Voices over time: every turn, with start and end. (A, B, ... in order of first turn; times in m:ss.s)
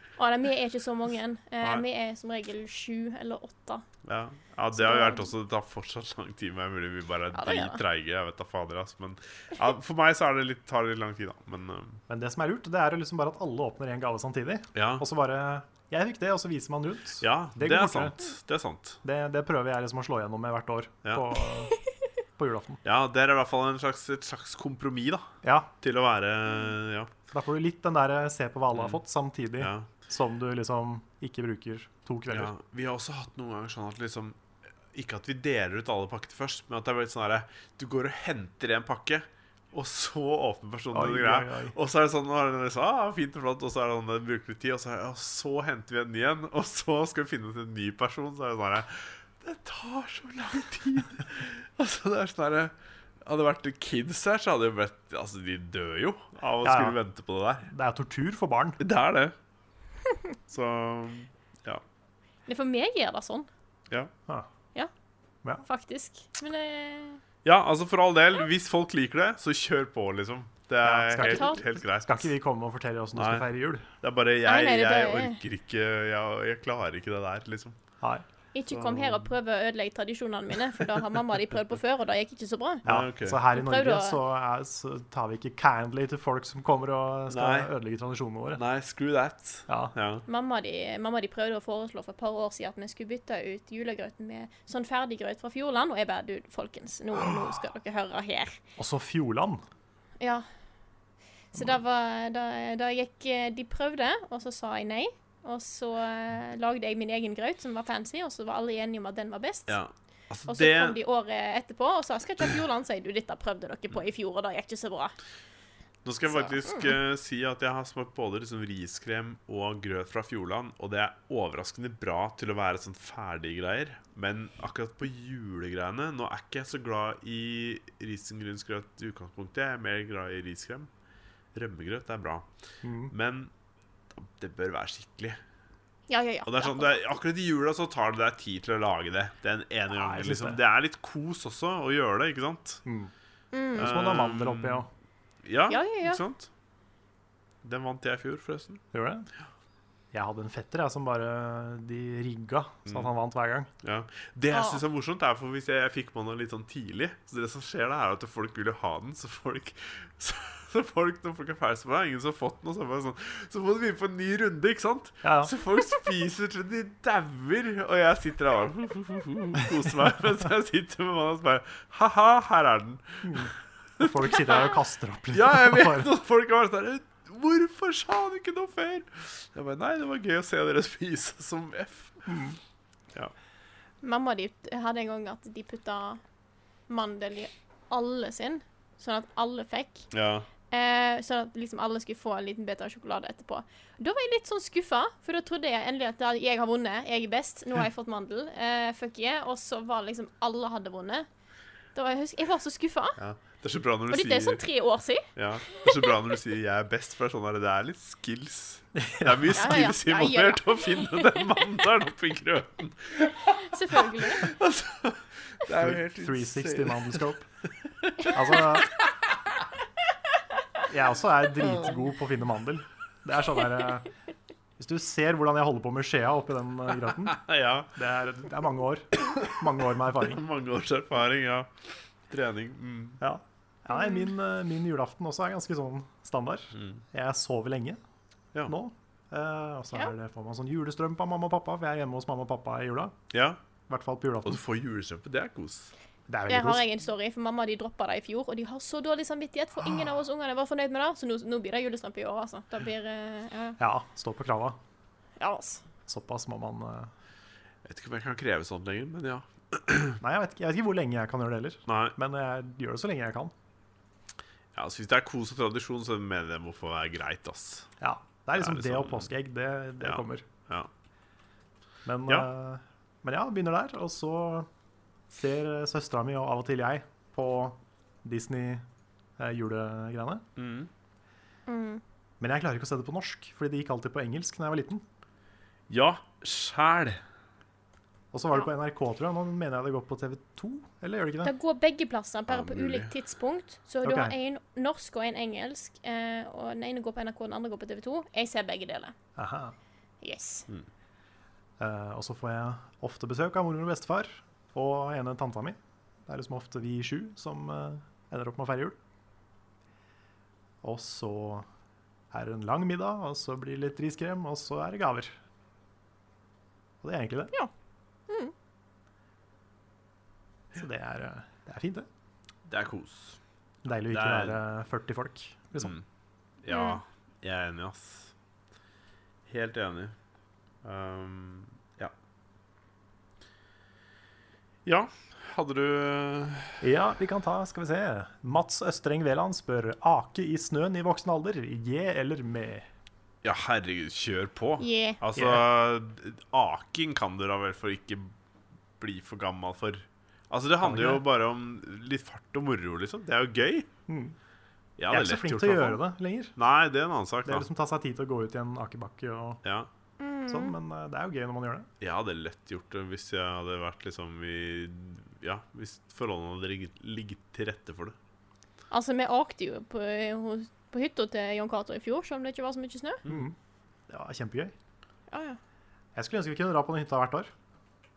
0:00.2-0:03.8 A
0:04.0-0:12.0 B
0:04.7-0:05.3 A
0:07.3-0:07.8 A
0:12.1-0:18.2 C
0:14.7-0:15.0 B
0:17.2-0:19.0 B
0:19.0-0:21.7 C
0:22.4-0:22.8 C
0:22.8-0:25.3 B
0:25.4-0:25.7 C
0:25.8-0:27.1 B
0:27.3-0:32.5 C
0:28.7-0:29.0 B
0:29.6-0:29.9 B
0:32.3-0:34.4 B
0:34.9-0:57.7 B
0:40.9-0:41.7 C
0:56.6-0:57.0 C
0:57.6-0:58.8 C
0:58.8-0:59.3 B
1:00.5-1:01.8 B
1:02.5-1:03.5 A
1:05.6-1:07.2 A
1:07.4-1:12.3 B
1:10.8-1:13.8 C
1:11.2-1:11.6 A
1:13.1-1:13.5 B
1:14.0-1:17.8 B
1:14.4-1:15.4 A
1:18.5-1:22.9 A
1:18.7-1:19.3 B
1:22.8-1:23.4 B
1:22.8-1:28.6 C
1:23.5-1:24.2 A
1:27.3-1:27.7 B
1:28.6-1:30.2 B
1:29.7-1:29.9 C
1:30.3-1:38.6 A
1:38.8-1:39.6 C
1:40.2-1:40.4 A
1:41.5-1:49.8 A
1:49.7-1:51.0 B
1:50.5-1:55.1 A
1:56.0-2:10.9 B
1:56.3-1:57.0 A
2:11.5-2:12.5 B
2:12.8-2:13.1 C
2:13.1-2:13.5 B
2:14.1-2:15.4 B
2:16.1-2:17.0 A
2:16.4-2:22.8 B
2:19.9-2:20.6 C
2:22.8-2:23.1 C
2:23.5-2:23.9 A
2:23.7-2:24.9 C
2:23.8-2:24.9 B
2:25.4-2:26.5 B
2:25.7-2:26.2 A
2:27.6-2:28.8 B
2:28.9-2:29.3 C
2:30.1-2:33.7 C
2:32.8-2:33.1 B
2:33.8-2:54.7 B
2:34.5-2:34.8 A
2:45.2-2:45.5 C
2:53.2-2:56.1 C
2:55.3-3:02.3 B
3:02.2-3:02.6 C
3:04.0-3:06.2 A
3:06.9-3:10.1 A
3:10.1-3:10.5 B
3:10.7-3:21.3 A
3:21.9-3:23.2 A
3:23.2-3:24.6 B
3:24.1-3:25.8 A
3:25.3-3:37.3 B
3:29.0-3:29.5 C
3:29.5-3:31.5 A
3:33.5-3:34.5 A
3:35.7-3:37.5 C
3:38.1-3:38.8 B
3:38.2-3:38.9 C
3:40.9-3:44.1 C
3:41.6-3:42.0 B
3:44.8-3:50.4 C
3:47.4-3:47.9 B
3:50.3-3:51.7 B
3:52.3-3:53.2 B
3:53.2-3:58.0 C
3:56.7-3:57.0 B
3:58.7-4:03.2 C
4:03.3-4:03.6 B
4:03.9-4:04.6 C
4:04.4-4:05.9 B
4:06.3-4:06.8 C
4:06.5-4:13.8 A
4:13.8-4:14.8 C
4:15.4-4:15.8 A
4:16.1-4:17.1 C
4:17.8-4:20.2 B
4:20.2-4:23.5 C
4:21.9-4:22.1 B
4:24.7-4:27.9 B
4:28.0-4:30.4 C
4:28.6-4:29.3 B
4:30.0-4:30.9 B
4:32.0-4:34.7 C
4:35.3-4:38.8 C
4:39.4-4:40.4 C
4:40.6-4:40.9 B
4:41.7-4:42.0 A
4:42.4-4:45.0 C
4:45.9-4:47.2 B
4:48.3-4:51.5 C
4:51.4-4:59.1 A
4:52.5-4:53.1 B
4:54.0-4:54.4 C
4:59.4-4:59.7 C
5:00.2-5:00.6 A
5:01.8-5:09.0 C
5:10.8-5:11.7 C
5:12.3-5:15.4 C
5:17.0-5:17.5 C
5:20.7-5:22.1 C
5:22.6-5:24.6 B
5:23.8-5:25.9 C
5:25.8-5:26.0 B
5:26.6-5:28.3 B
5:26.7-5:27.0 A
5:29.5-5:30.1 B
5:30.8-5:32.1 B
5:34.8-5:36.8 B
5:36.8-5:42.9 C
5:43.4-5:48.3 B
5:44.8-5:45.2 A
5:45.3-5:45.6 C
5:49.0-5:53.9 B
5:50.8-5:51.2 C
5:54.1-5:54.4 C
5:55.0-5:56.0 B
5:55.1-5:56.5 C
5:56.6-5:57.6 B
5:57.4-5:59.6 C
5:59.6-5:59.9 B
6:00.2-6:00.7 A
6:00.5-6:01.9 C
6:02.0-6:08.2 B
6:08.9-6:13.2 A
6:13.3-6:13.6 C
6:14.1-6:14.7 C
6:15.3-6:15.6 A
6:16.1-6:17.5 C